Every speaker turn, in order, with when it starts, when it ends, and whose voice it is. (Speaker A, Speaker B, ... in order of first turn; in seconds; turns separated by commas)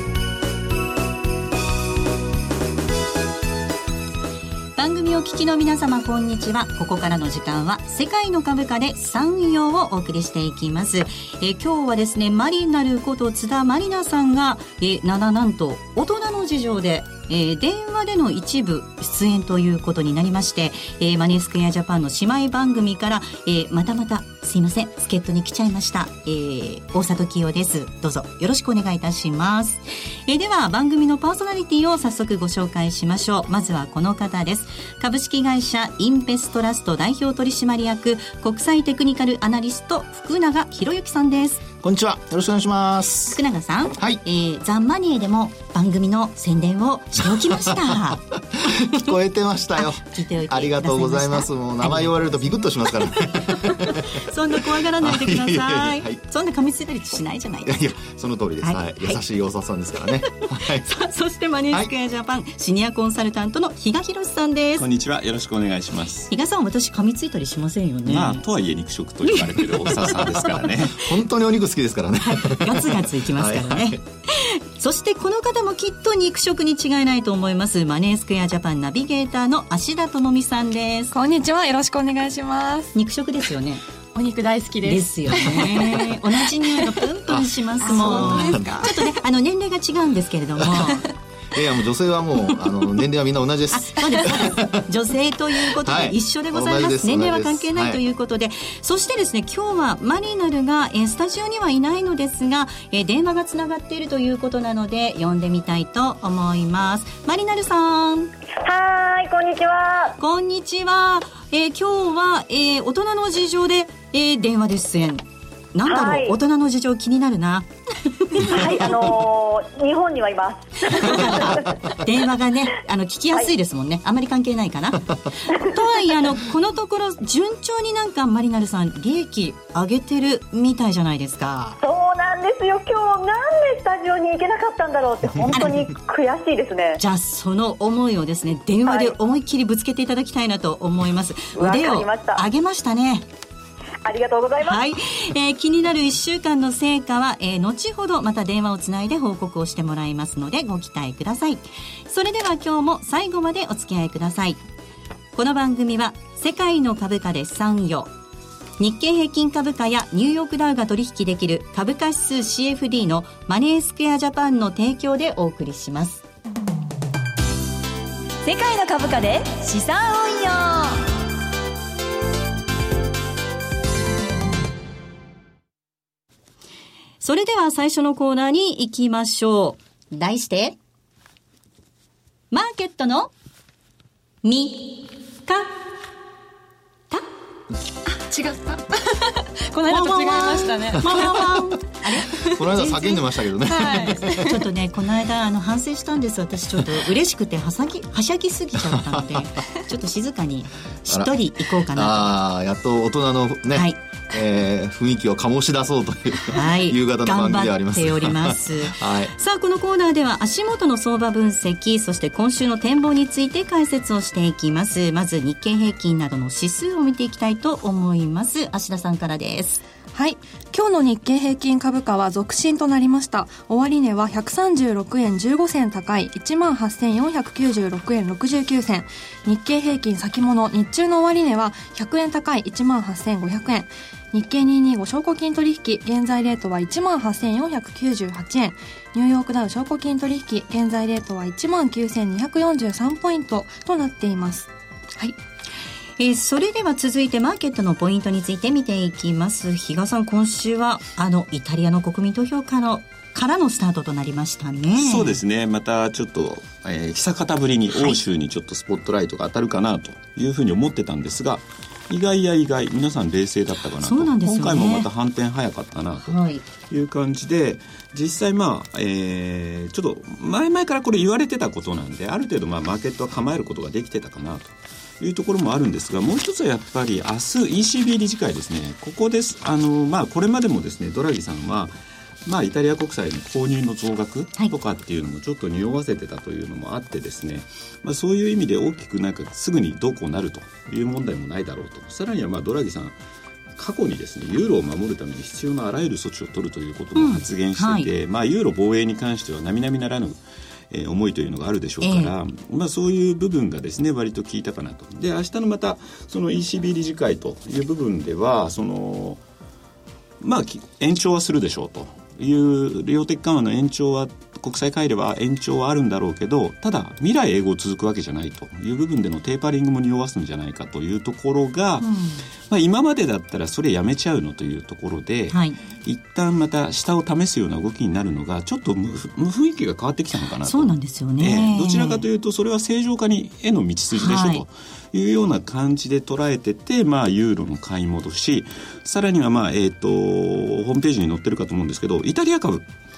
Speaker A: 4.8-41.6, Speaker B: 41.8-43.4, Speaker A: 43.3-48.2, Speaker B: 47.5-48.0, Speaker B: 48.5-56.2, Speaker A: 49.8-57.9, Speaker B: 57.6-60.9, Speaker A: 58.6-59.2, Speaker A: 60.3-64.9, Speaker C: 64.8-66.3, Speaker A: 66.3-68.4, Speaker C: 68.1-71.0, Speaker A: 69.3-70.7, Speaker B: 70.9-74.0, Speaker A: 72.2-81.2, Speaker D: 81.1-83.0, Speaker A: 82.9-83.8, Speaker D: 84.1-87.0, Speaker A: 84.8-91.1, Speaker B: 87.3-88.9, Speaker D: 87.8-89.1, Speaker B: 90.6-90.9, Speaker B: 91.5-94.9, Speaker A: 93.7-108.3, Speaker B: 95.8-98.0, Speaker E: 108.6-110.2, Speaker A: 110.2-115.2, Speaker A: 115.7-118.8, Speaker E: 115.8-116.4, Speaker E: 118.4-121.8, Speaker A: 120.8-131.8, Speaker E: 125.5-126.0, Speaker E: 131.8-137.0, Speaker A: 137.0-143.3, Speaker E: 138.9-139.2, Speaker E: 141.6-142.4, Speaker E: 144.0-144.8, Speaker A: 144.7-154.6, Speaker A: 155.3-158.1, Speaker A: 158.8-166.2, Speaker A: 168.4-171.1, Speaker A: 177.2-180.8, Speaker A: 182.5-183.3, Speaker A: 184.4-185.7, Speaker D: 188.1-191.5, Speaker A: 189.8-192.5, Speaker B: 191.1-191.3, Speaker D: 192.2-194.6, Speaker B: 192.3-194.6, Speaker A: 194.1-202.3, Speaker B: 198.8-199.5, Speaker B: 201.1-209.3, Speaker A: 203.7-204.0, Speaker A: 206.5-219.8, Speaker D: 220.1-245.4, Speaker A: 246.2-255.4, Speaker C: 255.0-293.2, Speaker A: 257.9-258.2, Speaker A: 264.0-265.1, Speaker A: 266.2-266.6, Speaker C: 293.8-309.4, Speaker A: 297.2-298.1, Speaker A: 302.0-302.3, Speaker C: 310.4-322.1, Speaker A: 322.0-322.4, Speaker C: 322.7-342.9, Speaker A: 325.5-325.8, Speaker A: 330.6-332.2, Speaker A: 334.1-334.6